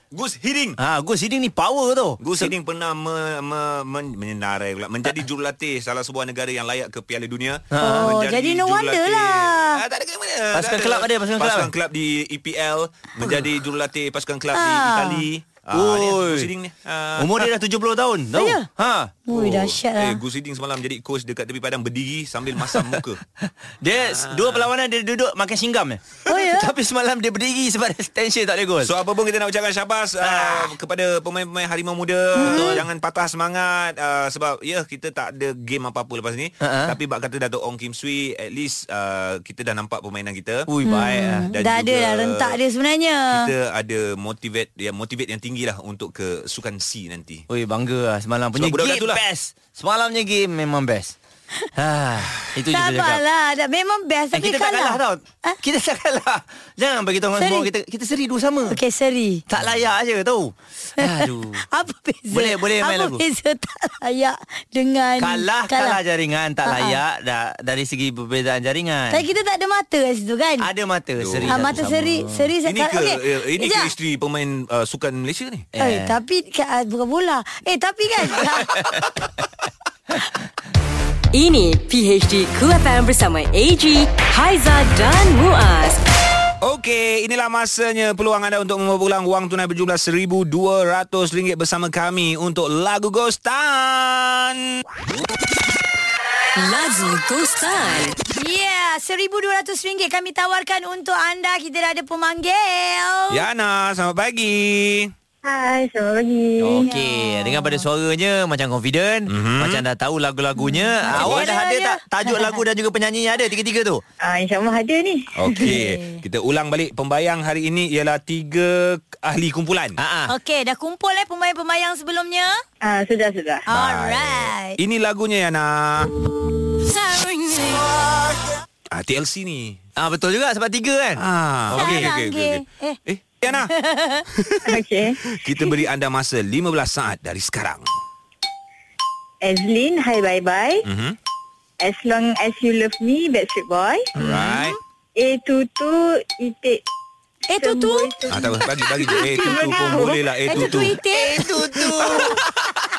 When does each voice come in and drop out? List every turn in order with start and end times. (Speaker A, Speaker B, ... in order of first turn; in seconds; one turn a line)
Speaker A: 0.1-0.8
Speaker B: 0.8-2.5
Speaker A: 2.2-17.5
Speaker B: 7.7-8.1
Speaker C: 7.8-9.8
Speaker B: 10.5-11.7
Speaker C: 14.5-15.2
Speaker B: 15.7-16.5
Speaker B: 17.2-19.2
Speaker C: 18.3-18.6
Speaker C: 19.2-20.2
Speaker A: 19.3-23.2
Speaker B: 22.7-28.9
Speaker A: 23.9-24.7
Speaker C: 26.3-26.7
Speaker A: 28.8-40.7
Speaker B: 30.2-30.7
Speaker C: 32.3-32.8
Speaker B: 32.4-32.9
Speaker B: 36.6-36.9
Speaker B: 40.7-41.5
Speaker C: 40.9-43.5
Speaker A: 41.4-42.6
Speaker A: 43.3-47.4
Speaker B: 47.5-51.1
Speaker A: 48.5-49.2
Speaker B: 51.8-53.2
Speaker C: 52.7-55.6
Speaker B: 54.3-58.8
Speaker C: 57.4-57.7
Speaker C: 58.7-59.4
Speaker B: 59.5-61.6
Speaker C: 61.0-66.0
Speaker B: 62.3-63.2
Speaker B: 65.2-69.2
Speaker C: 66.6-67.0
Speaker C: 69.1-70.7
Speaker B: 70.6-72.5
Speaker A: 71.2-71.8
Speaker C: 71.5-73.9
Speaker A: 72.6-75.7
Speaker B: 75.7-76.2
Speaker C: 75.8-78.7
Speaker B: 78.8-79.2
Speaker D: 81.3-86.0
Speaker A: 86.6-94.8
Speaker D: 96.5-98.2
Speaker C: 98.3-103.4
Speaker A: 103.3-105.1
Speaker E: 105.4-106.9
Speaker B: 106.6-114.0
Speaker C: 106.7-107.8
Speaker A: 109.3-109.8
Speaker C: 110.5-112.6
Speaker A: 111.1-111.5
Speaker E: 114.2-115.7
Speaker A: 115.4-120.0
Speaker C: 115.5-116.2
Speaker B: 120.0-120.3
Speaker C: 120.3-122.6
Speaker E: 122.8-123.6
Speaker C: 123.7-124.8
Speaker A: 123.7-126.1
Speaker C: 126.8-127.8
Speaker A: 128.9-129.8
Speaker B: 130.0-132.1
Speaker A: 131.2-133.7
Speaker C: 131.8-134.2
Speaker A: 134.3-134.7
Speaker E: 134.6-135.2
Speaker A: 135.2-137.9
Speaker E: 139.4-140.8
Speaker A: 140.8-141.2
Speaker E: 141.8-144.1
Speaker A: 144.2-144.8
Speaker C: 144.3-144.7
Speaker E: 145.2-146.8
Speaker C: 147.5-148.2
Speaker E: 147.6-150.2
Speaker A: 148.3-151.0
Speaker C: 149.0-152.4
Speaker B: 150.5-152.7